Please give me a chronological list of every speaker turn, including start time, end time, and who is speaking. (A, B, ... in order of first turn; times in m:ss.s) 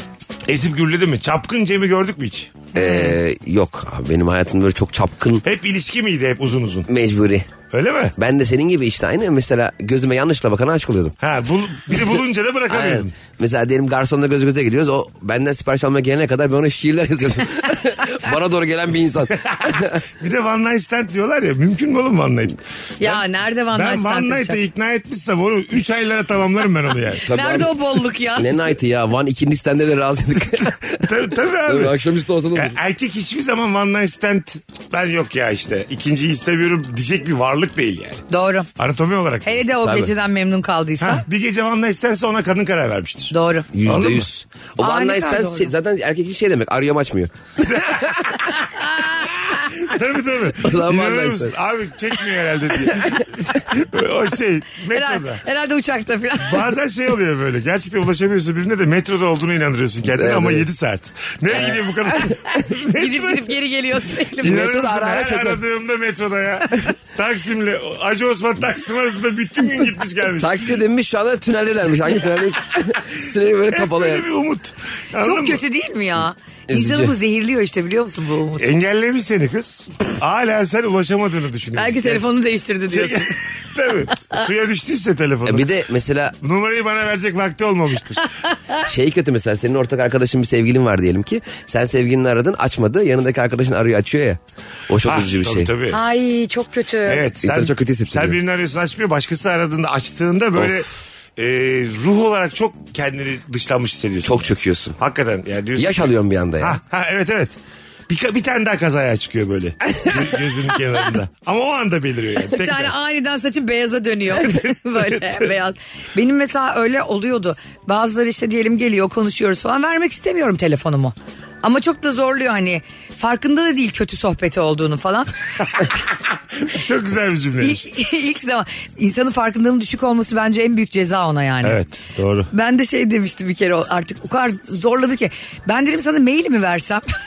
0:00.5-0:02.7 A
0:02.7-0:03.2 B
0:02.7-0:05.4 C
0:05.4-0:06.9 A
0:06.9-0:07.5 C
0:07.7-0:08.1 A
0:08.2-0:11.2 C
0:11.2-0:13.1 A
0:12.7-0:20.0 C
0:19.6-0:27.2 A
0:23.0-0:24.6 B
0:27.2-0:27.7 C
0:27.3-0:28.7 B
0:28.3-0:32.8 C
0:31.0-0:32.0 A
0:32.5-0:38.2 A
0:38.3-0:38.7 B
0:38.8-0:39.6 A
0:39.4-0:41.2 B
0:39.8-0:40.1 C
0:41.0-0:43.3 A
0:43.3-0:43.7 B
0:43.7-0:48.2 C
0:43.8-0:44.3 A
0:44.8-0:45.7 B
0:47.6-0:48.6 A
0:48.7-0:49.3 B
0:49.1-0:55.4 A
0:50.6-0:51.6 C
0:54.9-0:56.7 B
0:56.4-1:03.5 A
1:00.0-1:00.7 C
1:01.5-1:01.8 C
1:02.9-1:04.7 B
1:04.4-1:10.8 A
1:04.4-1:05.6 C
1:10.4-1:14.3 C
1:13.7-1:15.6 A
1:15.2-1:18.6 B
1:16.7-1:17.1 C
1:18.6-1:22.2 A
1:21.7-1:23.3 B
1:22.9-1:25.7 A
1:25.4-1:26.4 C
1:26.4-1:28.3 A
1:28.8-1:35.7 C
1:35.0-1:36.0 A
1:35.9-1:37.3 B
1:37.0-1:47.5 A
1:37.4-1:38.4 C
1:44.2-1:45.0 C
1:45.8-1:46.8 C
1:48.1-1:52.9 A
1:52.5-2:05.3 B
2:06.6-2:07.8 A
2:07.6-2:11.8 B
2:11.6-2:12.5 A
2:12.5-2:17.0 B